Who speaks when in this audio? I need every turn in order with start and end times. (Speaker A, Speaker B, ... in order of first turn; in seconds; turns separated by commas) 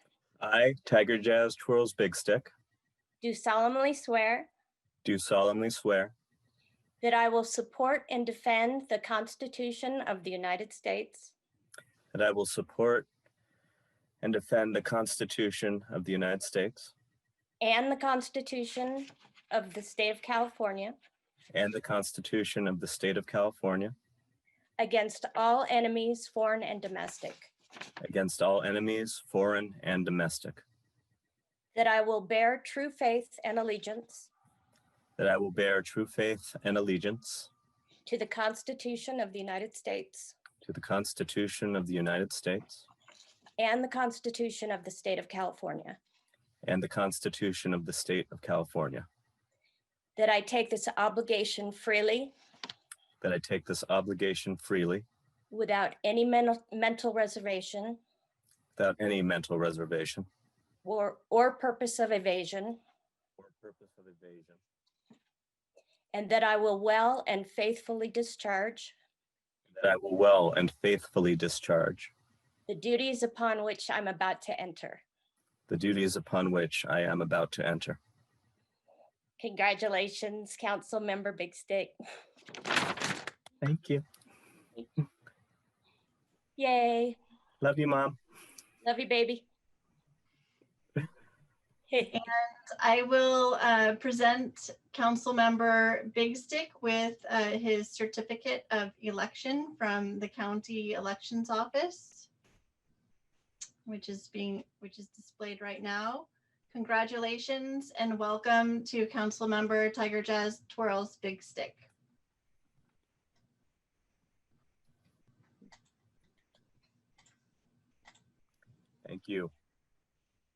Speaker A: 0.4-2.5, Speaker B: 3.2-4.5, Speaker A: 5.0-6.1, Speaker B: 7.0-11.3, Speaker A: 12.1-13.1, Speaker A: 14.2-16.9, Speaker B: 17.6-20.9, Speaker A: 21.5-23.9, Speaker B: 24.8-27.5, Speaker A: 28.0-30.6, Speaker B: 31.7-34.3, Speaker A: 35.2-37.5, Speaker B: 38.0-40.3, Speaker A: 40.6-42.9, Speaker B: 43.6-46.0, Speaker A: 46.6-49.0, Speaker B: 50.2-52.3, Speaker A: 53.2-55.0, Speaker B: 55.5-58.0, Speaker A: 58.8-60.2, Speaker B: 60.8-62.8, Speaker A: 63.4-64.6, Speaker B: 66.1-68.9, Speaker A: 69.7-72.1, Speaker B: 72.7-75.0, Speaker A: 75.7-78.0, Speaker B: 79.4-81.9, Speaker A: 83.6-84.0, Speaker B: 86.6-87.2, Speaker A: 87.6-88.2, Speaker B: 88.8-89.5, Speaker B: 91.9-92.2, Speaker C: 92.1-102.3, Speaker C: 103.8-111.9, Speaker A: 119.0-119.5